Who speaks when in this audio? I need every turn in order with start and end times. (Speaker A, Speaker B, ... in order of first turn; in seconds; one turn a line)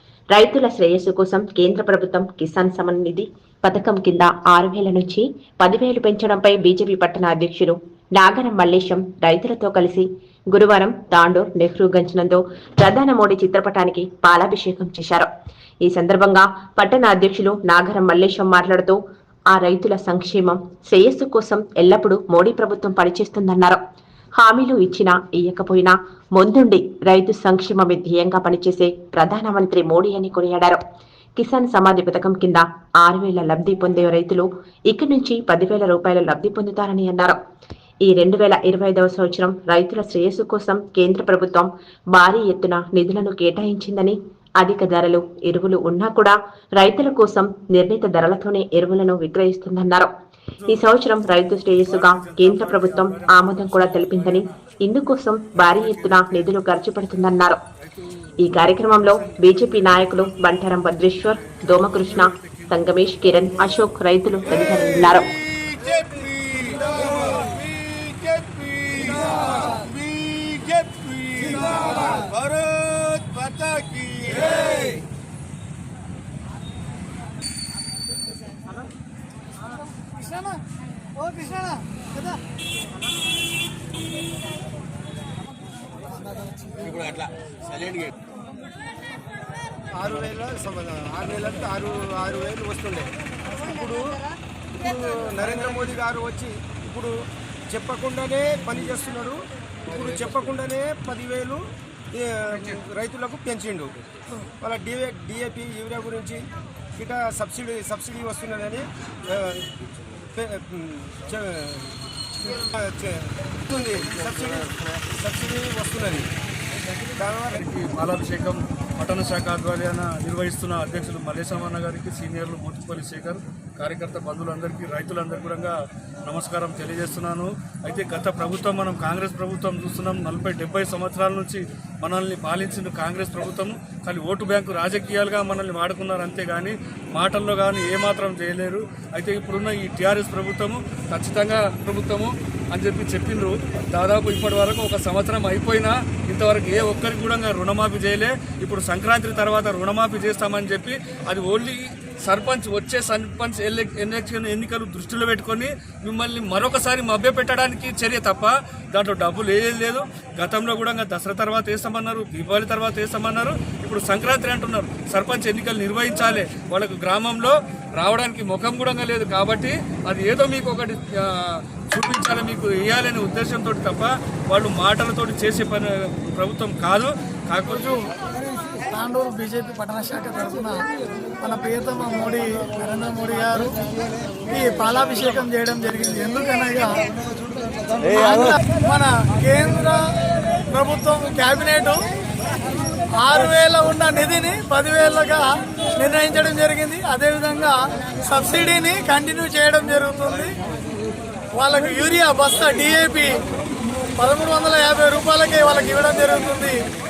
Speaker A: 0.3-15.3
Speaker A: 15.8-19.0
Speaker A: 19.5-23.8
Speaker A: 24.4-30.8
Speaker A: 31.4-37.4
Speaker A: 38.0-50.1
Speaker A: 50.6-57.6
Speaker B: 51.9-54.3
Speaker A: 58.4-65.3
Speaker C: 65.6-74.7
Speaker D: 80.2-80.5
Speaker D: 81.2-81.8
Speaker C: 89.9-97.1
Speaker C: 97.7-104.0
Speaker C: 104.6-109.7
Speaker C: 110.3-116.3
Speaker C: 117.2-117.6
Speaker B: 117.5-177.9
Speaker D: 177.7-178.0
Speaker D: 178.9-180.8
Speaker D: 181.4-183.7
Speaker D: 184.5-187.1
Speaker D: 188.1-190.1
Speaker D: 190.7-192.1
Speaker D: 193.2-200.5
Speaker D: 201.6-203.3
Speaker D: 204.2-206.8